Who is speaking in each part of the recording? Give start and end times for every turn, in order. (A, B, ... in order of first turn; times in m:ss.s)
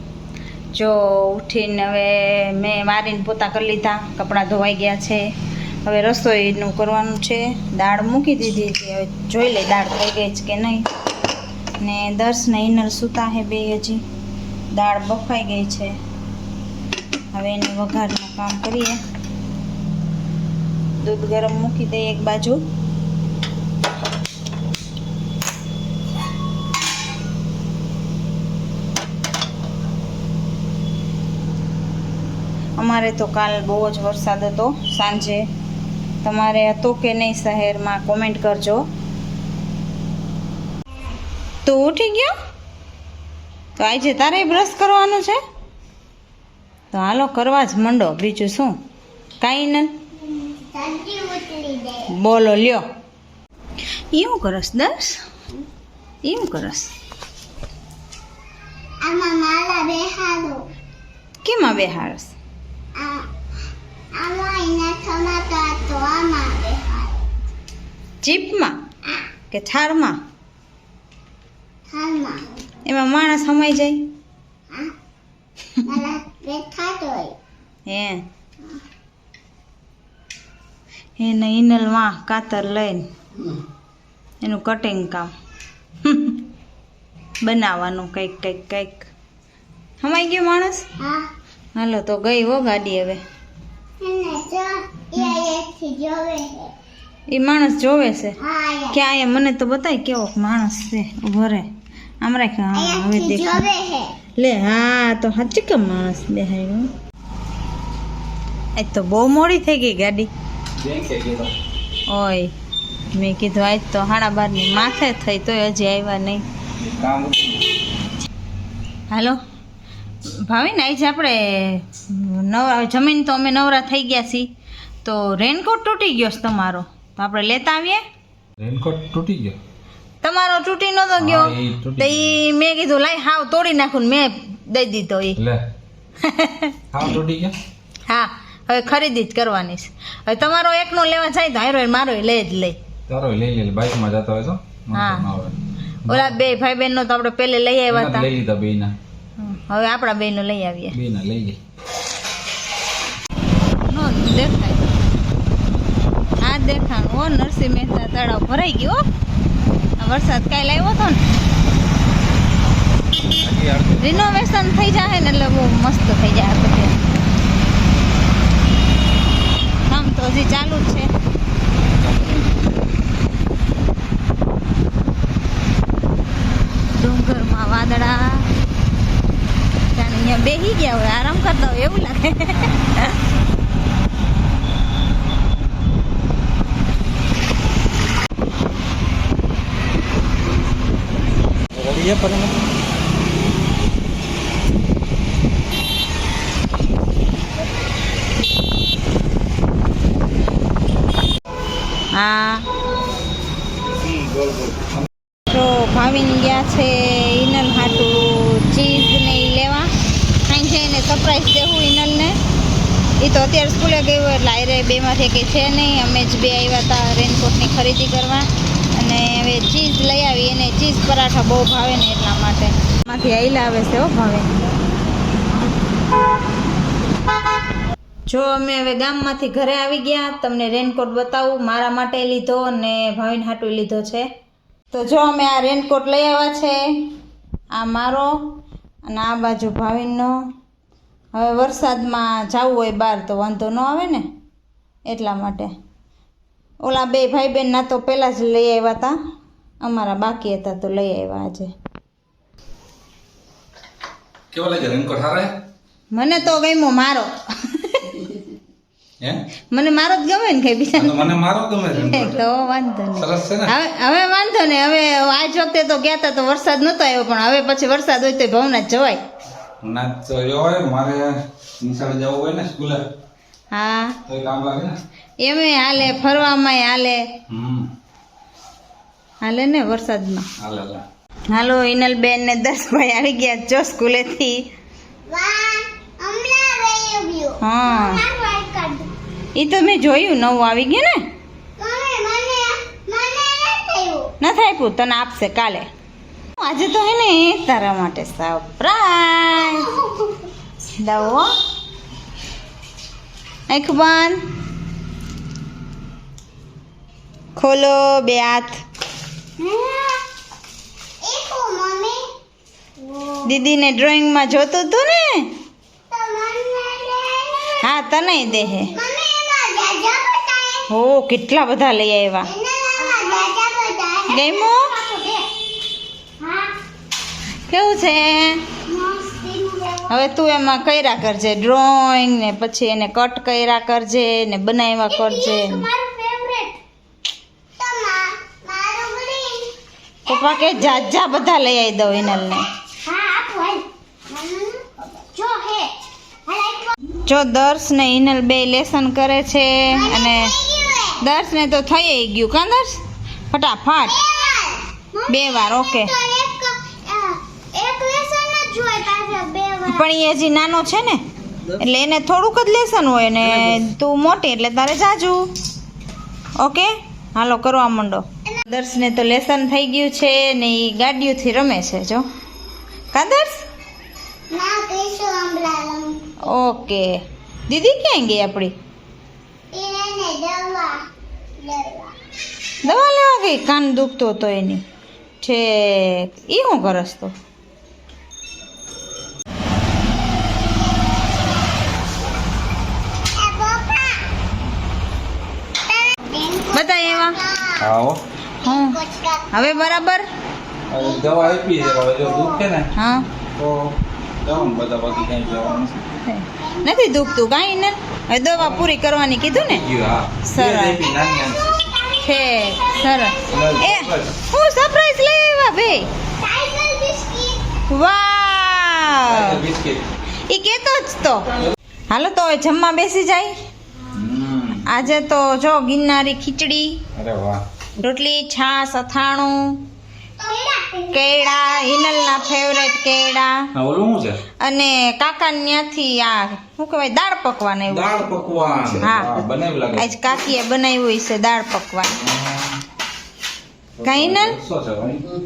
0:00.7-0:05.2 A
0:05.8-0:10.9 A
0:11.8-0:14.0 A
0:14.7-0:16.0 A
0:17.3-0:19.0 A
0:21.0-0:22.6 A
0:32.8-0:35.5 A
0:36.2-0:38.8 A
0:41.6-0:42.3 A
0:43.8-0:45.4 A
0:44.0-0:44.4 B
0:46.9-0:48.7 A
0:49.4-0:49.9 A
0:50.2-0:52.1 B
0:52.1-0:52.8 A
0:54.1-0:55.2 A
0:56.2-0:56.9 A
0:59.0-1:00.6 B
1:01.4-1:02.3 A
1:02.9-1:03.3 B
1:04.1-1:07.2 B
1:08.2-1:08.8 A
1:09.5-1:10.2 A
1:11.9-1:12.5 B
1:12.8-1:14.0 A
1:15.8-1:17.3 B
1:17.9-1:18.2 A
1:21.2-1:23.0 A
1:24.4-1:25.3 A
1:26.0-1:26.4 A
1:27.4-1:29.1 A
1:30.0-1:30.8 A
1:31.0-1:31.3 B
1:31.7-1:33.2 A
1:34.0-1:36.7 B
1:37.3-1:38.4 A
1:38.4-1:39.0 B
1:38.9-1:41.7 A
1:42.2-1:43.7 A
1:42.8-1:44.1 B
1:44.4-1:46.9 A
1:48.8-1:50.3 A
1:50.8-1:51.5 C
1:52.1-1:52.5 A
1:53.1-1:56.4 A
1:56.8-1:57.7 C
1:59.1-1:59.4 A
2:00.4-2:04.5 A
2:05.0-2:08.0 A
2:08.6-2:09.6 C
2:10.2-2:15.4 A
2:11.2-2:12.4 C
2:15.4-2:15.6 C
2:16.2-2:16.8 A
2:16.9-2:17.5 C
2:18.1-2:22.8 A
2:23.1-2:26.3 C
2:24.9-2:25.2 A
2:26.1-2:28.3 A
2:27.9-2:28.9 C
2:29.4-2:31.0 A
2:30.9-2:31.6 C
2:33.9-2:34.9 A
2:36.4-2:39.0 A
2:40.0-2:41.2 A
2:43.3-2:44.4 C
2:44.0-2:47.1 A
2:49.9-2:51.1 A
2:52.0-2:52.4 C
2:56.9-2:58.5 A
2:59.9-3:03.2 A
3:11.7-3:12.6 C
3:22.1-3:22.6 A
3:24.0-3:24.9 C
3:25.5-3:29.9 A
3:30.5-3:32.4 A
3:33.2-3:44.5 A
3:48.3-3:54.3 A
3:54.9-3:56.8 A
3:57.7-3:58.3 A
3:59.1-4:00.3 A
4:01.3-4:04.2 A
4:05.0-4:05.7 A
4:06.8-4:09.2 A
4:09.8-4:11.7 A
4:14.5-4:15.5 C
4:16.1-4:18.3 A
4:19.7-4:21.3 A
4:20.9-4:22.4 C
4:21.9-4:29.2 A
4:23.2-4:23.7 C
4:29.8-4:33.0 C
4:33.7-4:34.2 A
4:34.2-4:35.0 C
4:35.4-4:37.2 A
4:37.5-4:37.9 C
4:39.4-4:40.5 A
4:40.6-4:41.0 C
4:41.5-4:44.6 A
4:45.3-4:49.1 B
4:47.6-4:48.2 A
4:49.6-4:51.2 A
4:51.8-4:54.3 B
4:54.4-4:55.9 A
4:56.6-4:59.9 A
4:59.6-5:00.5 B
5:00.9-5:01.5 A
5:03.7-5:04.4 A
5:07.6-5:08.8 A
5:09.6-5:10.2 B
5:11.2-5:12.2 B
5:13.0-5:13.5 B
5:13.4-5:15.5 A
5:16.1-5:17.9 B
5:17.8-5:18.9 A
5:18.4-5:20.9 B
5:20.9-5:22.5 A
5:22.4-5:25.5 B
5:24.3-5:24.9 A
5:26.4-5:26.7 B
5:27.7-5:28.6 A
5:28.9-5:30.1 B
5:30.1-5:35.9 A
5:35.1-5:36.8 B
5:37.8-5:39.7 B
5:40.3-5:41.4 B
5:40.3-5:42.7 A
5:43.0-5:45.9 B
5:46.5-5:47.0 B
5:47.3-5:50.5 A
5:49.9-5:51.2 B
5:51.2-5:54.2 A
5:54.0-6:00.0 B
5:55.3-5:56.1 A
5:59.9-6:01.2 A
6:01.8-6:05.5 A
6:06.6-6:12.2 A
6:13.1-6:13.6 A
6:14.5-6:16.4 B
6:16.4-6:17.1 A
6:17.7-6:18.7 A
6:19.7-6:21.0 B
6:21.6-6:22.1 B
6:22.8-6:24.8 A
6:25.4-6:27.3 A
6:30.5-6:31.3 B
6:33.4-6:34.2 B
6:35.9-6:37.9 B
6:36.7-6:37.4 A
6:37.8-6:38.2 C
6:38.6-6:39.0 A
6:38.6-6:39.9 B
6:39.5-6:40.2 A
6:40.9-6:42.9 C
6:40.9-6:42.6 B
6:42.9-6:43.3 A
6:43.5-6:46.0 C
6:44.5-6:45.9 B
6:46.2-6:49.9 A
6:46.6-6:47.5 B
6:49.7-6:51.8 C
6:50.4-6:51.0 A
6:51.0-6:53.3 B
6:52.2-6:56.1 A
6:53.5-6:54.3 C
6:56.4-6:57.6 B
6:57.9-6:59.6 A
6:59.2-7:00.0 C
7:00.5-7:01.5 A
7:02.1-7:03.6 A
7:04.1-7:04.9 C
7:04.8-7:07.0 A
7:07.1-7:07.6 C
7:08.0-7:09.8 A
7:10.4-7:12.8 B
7:11.1-7:13.7 A
7:13.7-7:14.4 C
7:14.6-7:18.2 A
7:17.9-7:20.1 C
7:19.0-7:19.4 A
7:19.9-7:22.2 A
7:22.1-7:22.8 C
7:24.0-7:25.2 C
7:24.0-7:24.6 A